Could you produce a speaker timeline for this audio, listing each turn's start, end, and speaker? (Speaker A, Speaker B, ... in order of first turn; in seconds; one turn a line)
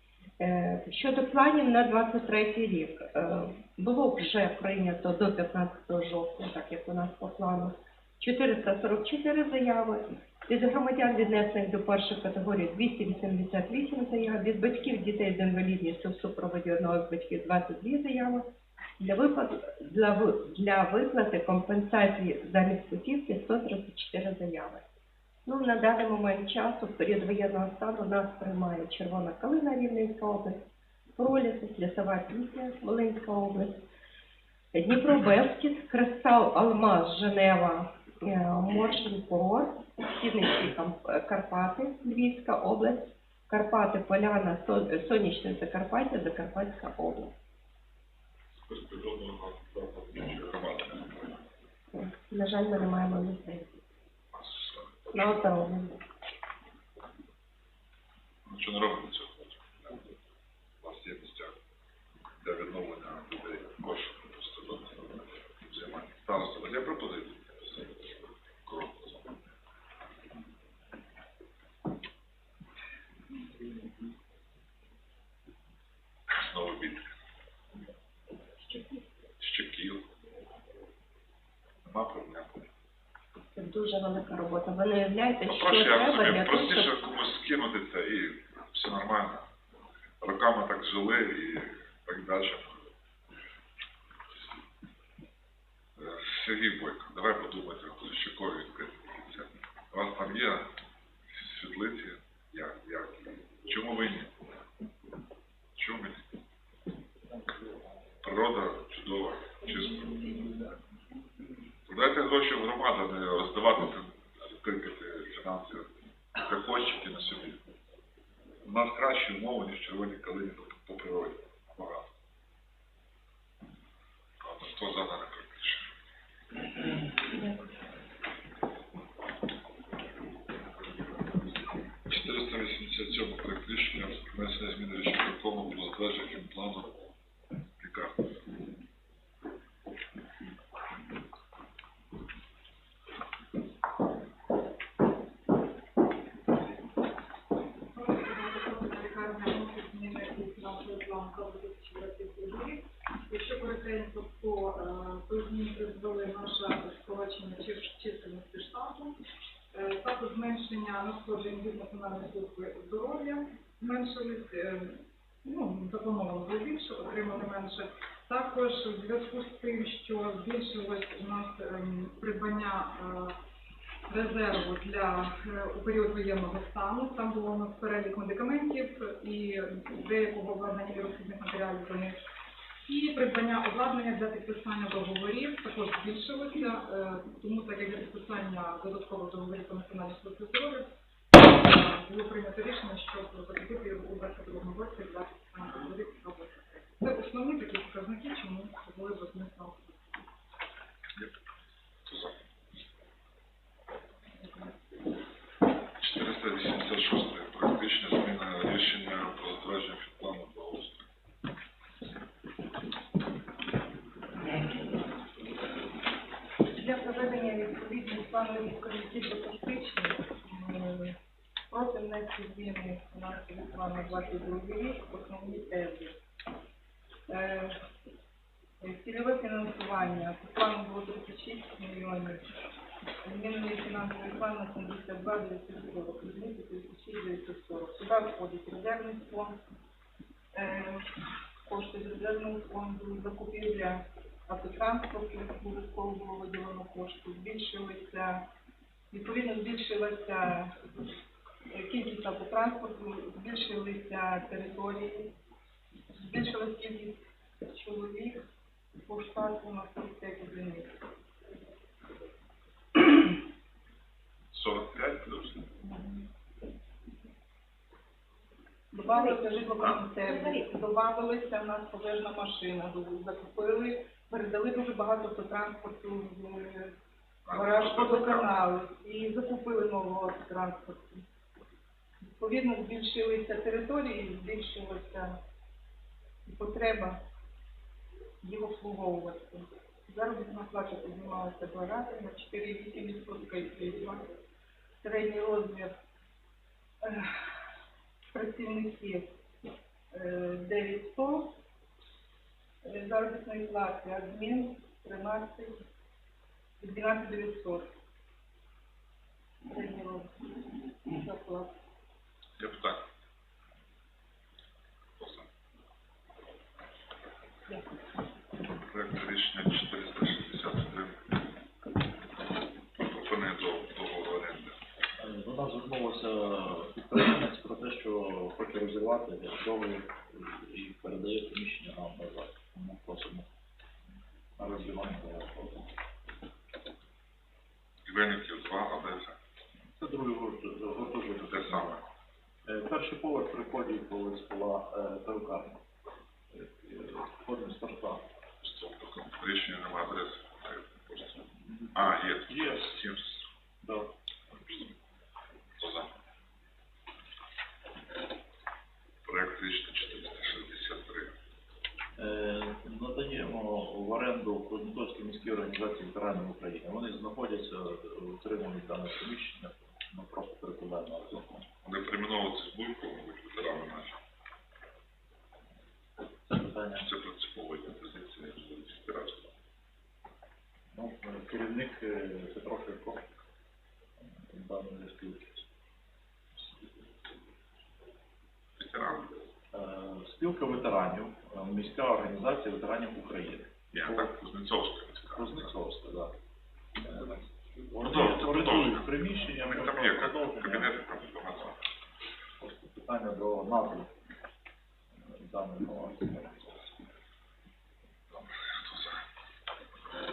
Speaker A: 0.4-18.5
Speaker A: 19.0-24.8
Speaker A: 25.5-30.6
Speaker A: 31.2-33.8
Speaker A: 34.7-47.3
Speaker B: 48.7-51.4
Speaker A: 51.9-53.7
Speaker B: 54.3-55.4
Speaker A: 55.1-56.0
Speaker B: 58.5-60.1
Speaker B: 60.8-61.5
Speaker B: 62.4-69.4
Speaker B: 76.3-77.1
Speaker B: 79.4-80.0
Speaker B: 81.8-82.6
Speaker A: 83.5-87.0
Speaker B: 85.5-89.5
Speaker B: 90.2-92.9
Speaker B: 96.0-100.7
Speaker B: 101.3-104.3
Speaker B: 105.8-106.2
Speaker B: 108.2-110.7
Speaker B: 111.9-117.6
Speaker B: 118.6-122.1
Speaker B: 124.4-125.9
Speaker B: 132.1-137.0
Speaker B: 137.8-138.2
Speaker C: 147.9-159.2
Speaker C: 159.7-173.4
Speaker C: 174.1-182.2
Speaker C: 182.8-200.2
Speaker B: 202.1-202.4
Speaker B: 206.0-211.1
Speaker D: 216.7-221.2
Speaker D: 221.7-226.2
Speaker D: 227.3-227.8
Speaker D: 228.8-232.5
Speaker D: 233.2-239.6
Speaker D: 240.5-241.1
Speaker D: 241.7-248.5
Speaker D: 249.1-250.8
Speaker D: 251.7-255.3
Speaker D: 256.2-258.4
Speaker D: 259.0-261.0
Speaker B: 264.5-265.6
Speaker D: 265.9-266.2
Speaker D: 268.9-276.9
Speaker A: 269.0-270.7
Speaker B: 277.5-278.5
Speaker D: 277.5-281.2
Speaker D: 282.2-285.4
Speaker D: 286.4-287.2
Speaker D: 288.4-294.3
Speaker D: 295.0-296.0
Speaker D: 297.0-297.4
Speaker D: 298.3-299.3
Speaker D: 300.1-301.6
Speaker D: 302.8-305.8
Speaker D: 306.8-307.9
Speaker D: 309.7-311.7
Speaker B: 312.6-313.0
Speaker B: 315.2-315.5
Speaker B: 318.8-321.3
Speaker B: 323.0-324.8
Speaker E: 325.2-333.5
Speaker E: 334.6-335.9
Speaker B: 338.1-339.4
Speaker E: 339.9-342.0
Speaker B: 341.5-342.0
Speaker E: 342.7-345.8
Speaker E: 346.5-348.2
Speaker B: 348.6-353.4
Speaker E: 351.6-353.1
Speaker E: 353.8-354.1
Speaker B: 355.8-356.1
Speaker B: 359.2-361.3
Speaker E: 362.2-371.7
Speaker B: 371.8-374.2
Speaker E: 376.5-377.1
Speaker B: 377.0-379.5
Speaker E: 380.9-383.2
Speaker E: 384.4-385.6
Speaker B: 388.8-389.4
Speaker E: 389.7-394.3
Speaker B: 393.9-395.7
Speaker E: 395.4-396.3
Speaker E: 397.0-400.9
Speaker B: 398.0-401.8
Speaker E: 402.6-404.1
Speaker E: 405.2-406.7
Speaker B: 408.4-409.2